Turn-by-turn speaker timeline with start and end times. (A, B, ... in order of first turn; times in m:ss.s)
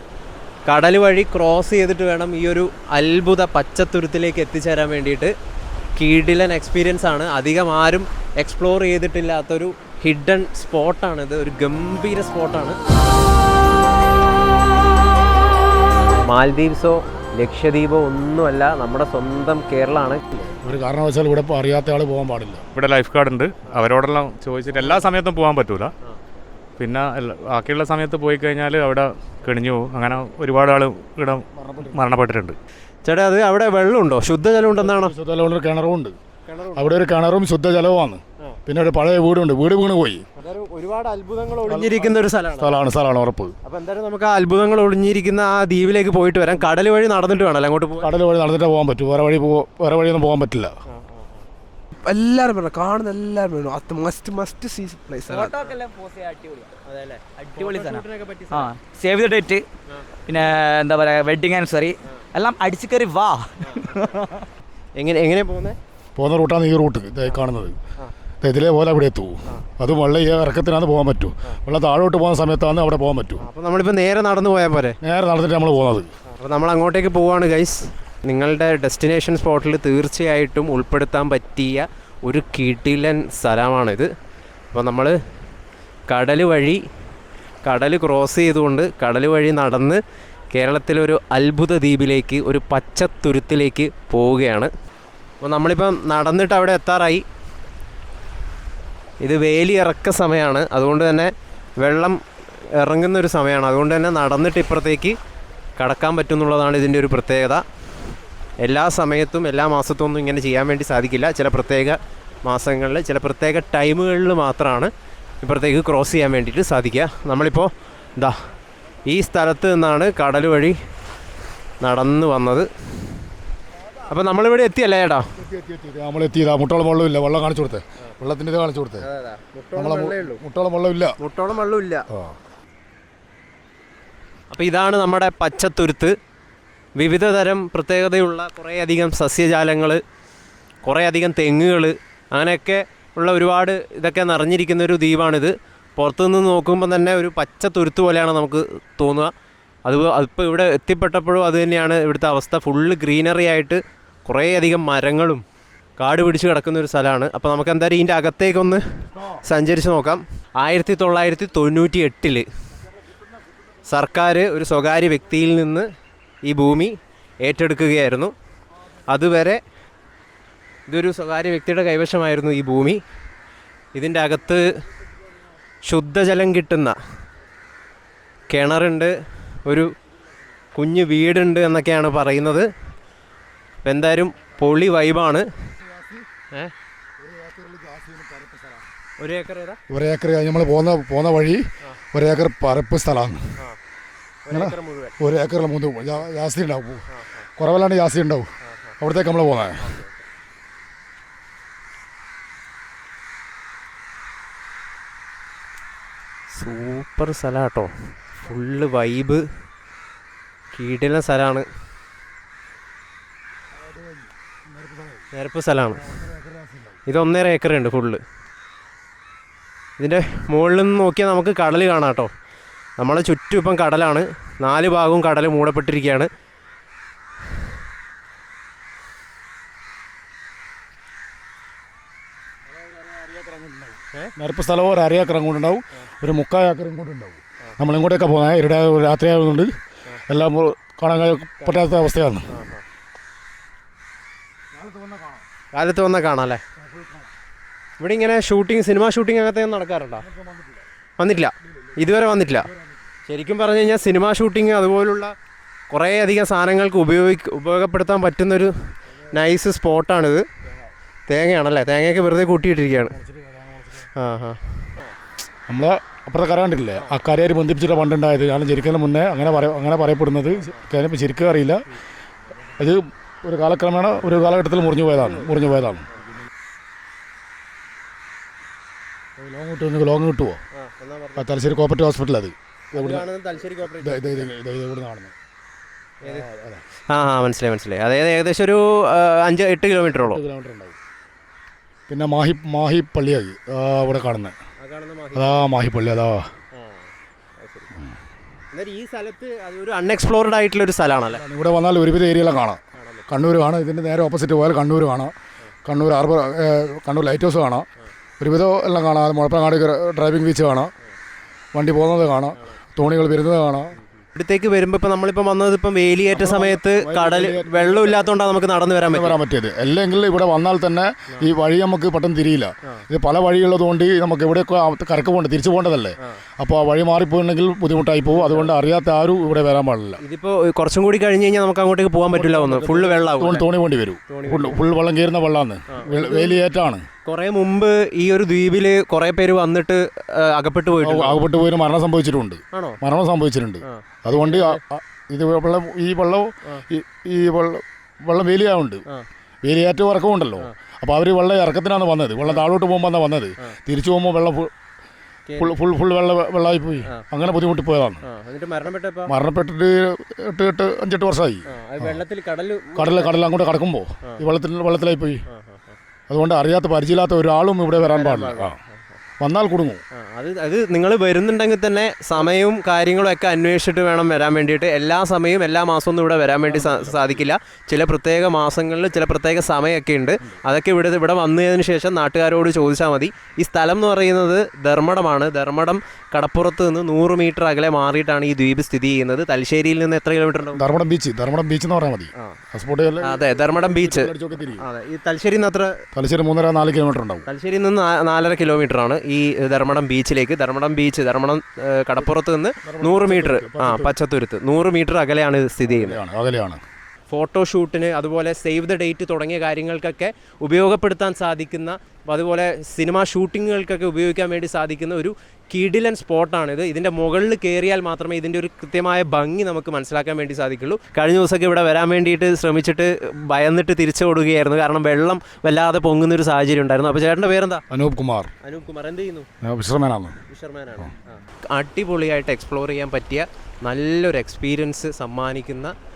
0:00.7-0:05.3 A
0:06.0-0:12.8 A
0:16.3-0:20.4 A
0:20.4-0:22.6 B
0:22.8-0:25.9 C
0:26.8-0:32.6 C
0:31.5-0:32.0 B
0:33.0-0:35.1 A
0:34.8-0:36.2 B
0:36.5-0:36.9 A
0:36.8-0:40.2 B
0:40.4-0:42.8 A
0:41.7-0:43.5 B
0:43.6-0:48.1 A
0:48.0-0:50.7 B
0:50.9-0:51.5 A
0:52.0-0:55.5 D
0:55.3-0:56.7 E
0:55.4-0:55.8 A
0:56.9-0:58.7 A
0:57.4-0:59.6 E
0:59.9-1:00.2 A
1:00.3-1:04.5 E
1:03.6-1:04.2 A
1:05.0-1:05.8 A
1:06.2-1:07.8 B
1:08.4-1:13.4 B
1:13.4-1:15.0 A
1:15.0-1:16.1 B
1:16.3-1:24.1 A
1:24.7-1:25.2 A
1:26.1-1:26.8 A
1:27.6-1:30.0 A
1:30.5-1:34.7 A
1:35.4-1:37.2 A
1:39.2-1:45.2 A
1:45.8-1:47.6 A
1:48.6-1:58.4 A
1:59.1-2:00.8 A
2:01.8-2:03.2 A
2:04.1-2:05.3 A
2:05.4-2:09.1 B
2:09.0-2:10.4 A
2:09.8-2:11.2 B
2:11.2-2:12.0 A
2:12.1-2:12.4 B
2:14.5-2:16.1 A
2:17.0-2:20.0 A
2:20.8-2:29.3 A
2:29.9-2:35.4 A
2:36.0-2:42.5 A
2:43.9-2:45.9 A
2:46.4-2:48.3 A
2:49.1-2:49.6 A
2:50.9-2:53.0 A
2:54.0-2:54.6 A
2:55.9-2:57.0 A
2:58.5-2:59.9 A
3:00.7-3:02.7 A
3:03.8-3:05.5 A
3:05.8-3:06.2 B
3:07.2-3:08.9 B
3:09.2-3:09.8 A
3:09.9-3:13.5 B
3:14.5-3:15.2 A
3:14.5-3:19.8 B
3:17.1-3:17.5 A
3:18.6-3:19.0 A
3:19.8-3:20.2 A
3:26.5-3:29.4 A
3:30.7-3:31.7 A
3:33.9-3:35.3 B
3:35.3-3:36.2 A
3:36.0-3:37.0 B
3:37.1-3:38.2 A
3:40.0-3:42.3 A
3:43.0-3:46.3 A
3:52.8-3:59.7 B
4:00.3-4:02.5 B
4:02.5-4:02.8 A
4:04.7-4:05.4 B
4:05.7-4:06.6 A
4:06.8-4:07.3 B
4:08.0-4:10.3 A
4:10.3-4:10.8 B
4:11.2-4:12.7 A
4:13.3-4:15.3 A
4:15.9-4:18.7 A
4:19.3-4:20.4 A
4:21.3-4:23.2 A
4:23.1-4:24.1 B
4:24.2-4:25.1 A
4:25.7-4:31.8 B
4:32.8-4:36.1 B
4:35.2-4:35.5 A
4:39.4-4:40.6 B
4:40.7-4:41.6 A
4:41.4-4:43.3 B
4:42.9-4:44.5 A
4:43.9-4:45.3 B
4:46.2-4:46.5 A
4:46.2-4:46.8 B
4:47.1-4:50.4 A
4:50.2-4:51.0 B
4:52.1-4:54.6 B
4:54.8-4:55.7 A
4:55.3-4:56.5 B
4:56.7-4:57.9 A
4:58.7-5:01.4 A
5:01.3-5:05.3 B
5:03.0-5:03.3 A
5:05.8-5:07.9 B
5:08.4-5:10.9 B
5:11.7-5:13.9 B
5:14.1-5:19.4 A
5:16.3-5:18.3 B
5:19.1-5:30.2 B
5:28.3-5:28.7 A
5:30.2-5:33.6 A
5:32.3-5:37.0 B
5:34.3-5:34.8 A
5:35.9-5:36.6 A
5:37.3-5:41.4 A
5:41.0-5:49.0 B
5:42.7-5:43.0 A
5:43.8-5:44.8 A
5:49.6-5:54.7 B
5:55.5-5:55.8 A
5:55.6-5:58.2 B
5:58.2-5:59.3 A
5:59.3-6:02.2 B
6:01.7-6:03.4 A
6:03.0-6:05.4 B
6:05.5-6:06.0 A
6:06.3-6:08.8 B
6:08.0-6:09.0 A
6:09.4-6:10.0 B
6:10.1-6:30.8 A
6:16.6-6:17.5 B
6:30.8-6:34.8 B
6:33.2-6:35.9 A
6:36.2-6:37.4 B
6:37.5-6:46.2 A
6:42.2-6:44.1 B
6:45.8-6:46.8 B
6:47.3-7:07.8 A
7:07.9-7:08.5 B
7:08.6-7:09.5 A
7:09.6-7:10.4 B
7:10.5-7:15.9 A